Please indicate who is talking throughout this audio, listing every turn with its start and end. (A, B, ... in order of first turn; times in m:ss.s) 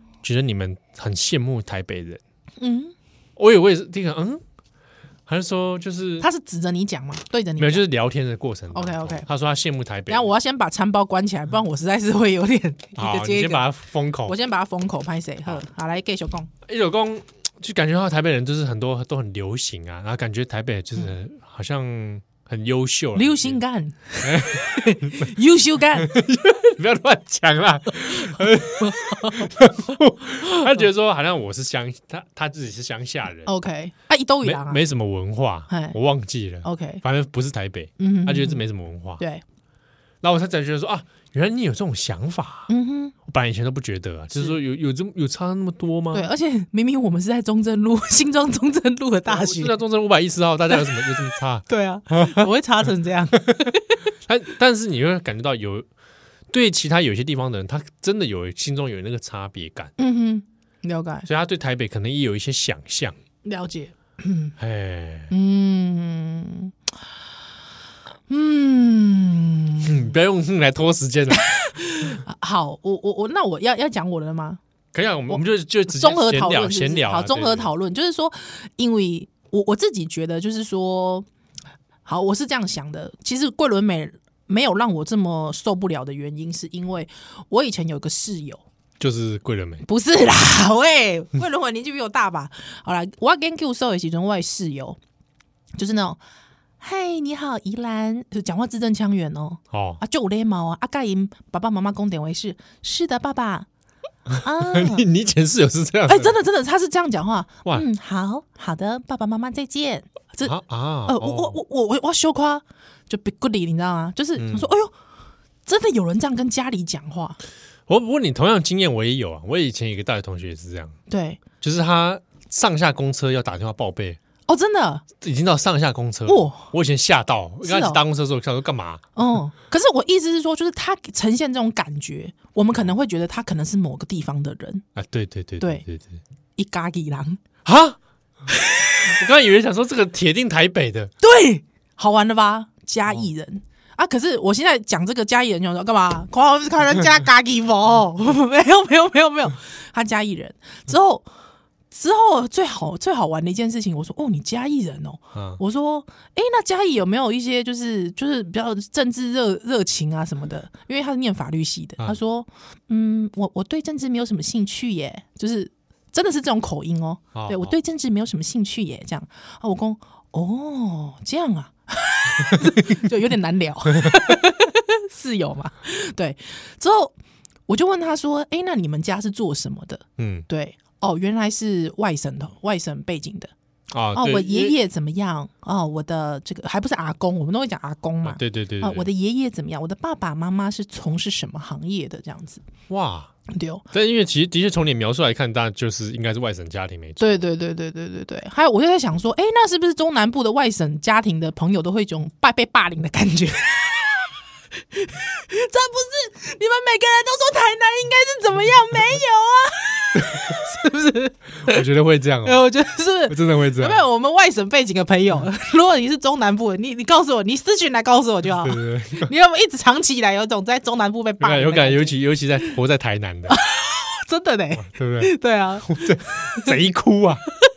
0:00.2-0:02.2 A
0:02.6-0:02.9 B
0:03.4-0:04.4 A
0:05.3-0:06.3 A
0:06.2-0:07.8 B
0:07.6-0:10.3 A
0:08.7-0:09.2 B
0:10.1-0:13.7 B
0:13.0-0:14.4 A
0:14.2-0:16.5 B
0:16.6-0:23.6 A
0:23.1-0:26.2 B
0:24.2-0:25.3 A
0:26.0-0:33.5 A
0:28.3-0:29.5 B
0:30.4-0:30.7 B
0:33.4-0:34.8 B
0:34.4-0:39.2 A
0:35.7-0:36.0 B
0:36.6-0:37.0 B
0:38.0-0:38.6 B
0:39.2-0:39.4 B
0:40.2-0:42.7 A
0:42.7-0:43.1 B
0:43.2-0:46.3 A
0:46.1-0:49.8 B
0:49.3-0:52.5 A
0:50.7-0:51.1 B
0:51.6-0:54.0 B
0:54.3-0:55.9 A
0:56.5-0:59.9 A
1:00.0-1:01.3 B
1:01.3-1:03.2 A
1:03.4-1:04.5 B
1:04.6-1:05.3 A
1:05.3-1:06.7 B
1:08.3-1:09.9 B
1:09.8-1:11.4 A
1:11.3-1:14.6 B
1:14.9-1:17.7 A
1:15.3-1:21.3 B
1:22.0-1:28.6 B
1:29.0-1:29.8 A
1:29.8-1:35.0 B
1:35.8-1:36.2 B
1:36.8-1:43.7 B
1:39.7-1:40.0 A
1:44.3-1:46.3 A
1:44.4-1:45.0 B
1:46.1-1:54.9 B
1:50.4-1:51.6 A
1:54.4-1:54.7 A
1:55.6-1:57.4 B
1:57.9-2:01.0 A
2:01.1-2:01.4 B
2:01.6-2:04.2 A
2:04.5-2:05.0 B
2:05.2-2:09.1 A
2:06.3-2:06.7 B
2:07.6-2:08.0 B
2:09.2-2:14.8 B
2:15.0-2:16.2 A
2:16.6-2:17.4 B
2:17.6-2:18.0 A
2:19.1-2:21.1 A
2:21.2-2:31.2 B
2:31.9-2:57.1 B
2:35.3-2:35.6 A
2:47.3-2:47.7 A
2:52.5-2:52.8 A
2:57.7-3:03.5 B
3:00.2-3:00.5 A
3:03.9-3:04.7 A
3:04.1-3:12.6 B
3:08.2-3:09.1 A
3:12.9-3:13.3 A
3:13.5-3:13.8 B
3:13.9-3:17.4 A
3:17.2-3:24.3 B
3:24.9-3:31.8 B
3:31.7-3:32.6 A
3:32.4-3:42.2 B
3:33.3-3:34.0 A
3:38.6-3:39.3 A
3:41.4-3:43.6 A
3:43.5-3:46.7 B
3:44.8-3:45.3 A
3:45.8-3:47.4 A